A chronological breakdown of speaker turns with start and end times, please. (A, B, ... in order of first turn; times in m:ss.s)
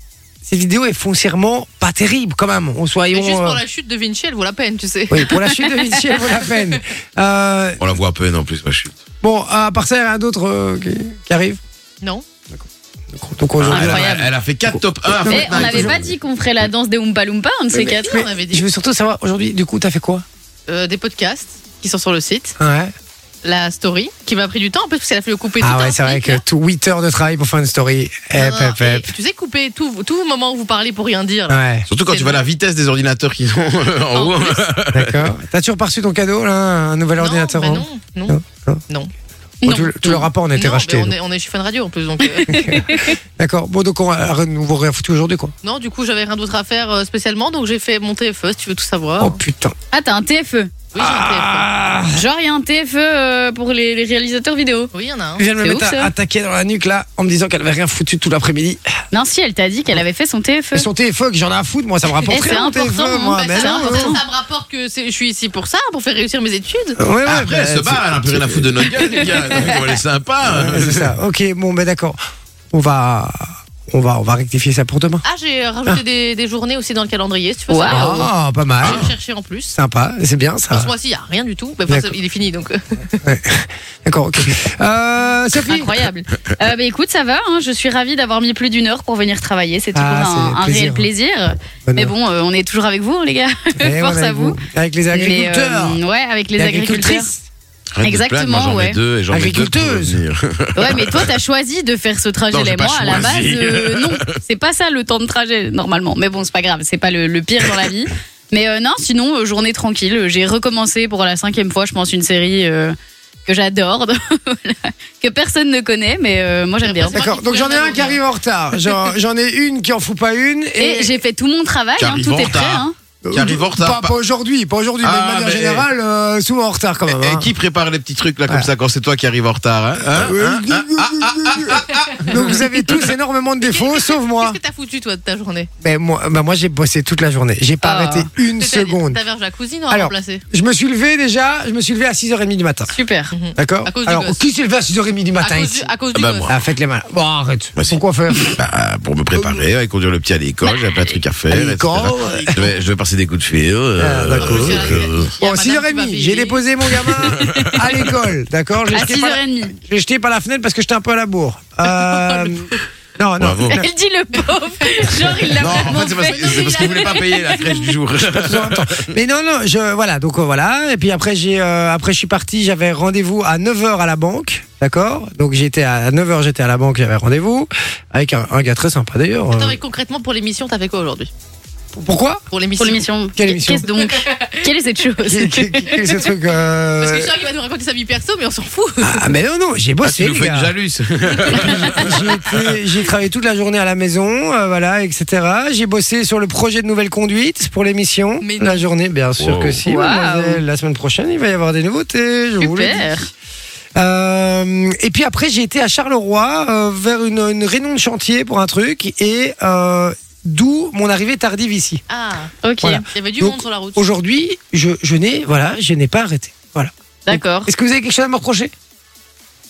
0:00.4-0:03.6 A
0:03.1-0:05.4 B
0:05.1-0:07.8 A
0:07.8-0:09.0 C
0:09.2-0:11.6 A
0:12.5-0:16.1 A
0:13.6-0:16.1 C
0:13.7-0:14.3 D
0:15.3-0:18.2 D
0:17.7-0:20.2 A
0:17.7-0:18.6 B
0:20.7-0:22.6 B
0:22.6-0:22.9 A
0:23.4-0:26.4 B
0:25.6-0:29.1 A
0:28.3-0:32.4 B
0:31.5-0:31.9 A
0:31.9-0:35.3 C
0:34.1-0:34.6 B
0:34.9-0:38.8 A
0:37.2-0:38.4 B
0:39.6-0:40.3 D
0:39.6-0:41.1 A
0:40.6-0:42.8 B
0:42.2-0:43.2 D
0:42.5-0:45.5 A
0:45.6-0:49.4 B
0:49.2-0:49.8 A
0:49.9-0:50.8 D
0:50.9-0:51.7 B
0:51.0-0:52.2 A
0:52.1-0:54.9 D
0:54.9-0:55.4 B
0:55.4-0:58.8 A
0:55.5-0:56.1 D
0:59.1-1:00.9 D
1:00.7-1:04.1 A
1:02.3-1:04.2 D
1:03.4-1:07.0 B
1:07.0-1:08.7 A
1:07.3-1:11.1 C
1:09.2-1:09.8 D
1:10.4-1:12.2 A
1:12.7-1:15.2 A
1:15.2-1:18.3 B
1:17.7-1:18.3 D
1:17.9-1:19.0 A
1:18.8-1:19.7 B
1:18.8-1:19.1 C
1:19.7-1:20.9 A
1:20.7-1:23.2 B
1:23.2-1:25.9 A
1:25.7-1:34.6 D
1:29.9-1:31.1 A
1:31.9-1:32.1 A
1:33.8-1:36.0 A
1:35.1-1:37.3 D
1:36.6-1:37.4 A
1:37.9-1:41.4 C
1:38.0-1:39.0 D
1:39.3-1:40.2 A
1:40.8-1:57.2 D
1:42.5-1:44.4 C
1:56.8-1:58.2 B
1:57.2-2:01.2 A
2:00.8-2:03.0 D
2:02.0-2:04.2 C
2:03.2-2:07.5 A
2:05.0-2:05.9 C
2:07.1-2:12.6 C
2:10.1-2:14.6 A
2:13.6-2:15.7 B
2:15.8-2:19.2 A
2:17.8-2:18.3 D
2:18.6-2:20.4 B
2:19.9-2:22.9 A
2:22.9-2:23.3 D
2:23.3-2:24.4 B
2:23.6-2:25.9 A
2:25.4-2:26.5 B
2:26.1-2:26.5 C
2:26.5-2:28.6 A
2:27.8-2:35.3 C
2:31.5-2:32.6 A
2:32.2-2:32.7 B
2:34.0-2:43.9 A
2:34.4-2:36.6 B
2:37.4-2:37.7 D
2:37.4-2:37.7 C
2:38.9-2:39.8 D
2:41.9-2:42.6 B
2:43.4-2:43.8 C
2:43.7-2:47.9 D
2:45.2-2:47.2 B
2:45.6-2:49.1 C
2:48.2-2:59.8 A
2:59.5-3:01.3 B
3:01.9-3:02.4 A
3:02.5-3:03.1 B
3:02.8-3:05.9 D
3:03.4-3:03.9 A
3:04.0-3:04.6 B
3:05.2-3:07.3 A
3:07.0-3:09.4 B
3:09.0-3:10.7 A
3:10.0-3:12.8 C
3:11.5-3:11.8 B
3:11.9-3:23.1 A
3:18.4-3:18.8 B
3:19.4-3:19.8 C
3:19.8-3:20.6 D
3:22.6-3:23.3 D
3:24.0-3:32.0 A
3:32.1-3:32.6 B
3:32.6-3:33.0 D
3:32.8-3:38.7 A
3:33.1-3:34.0 B
3:37.3-3:37.7 D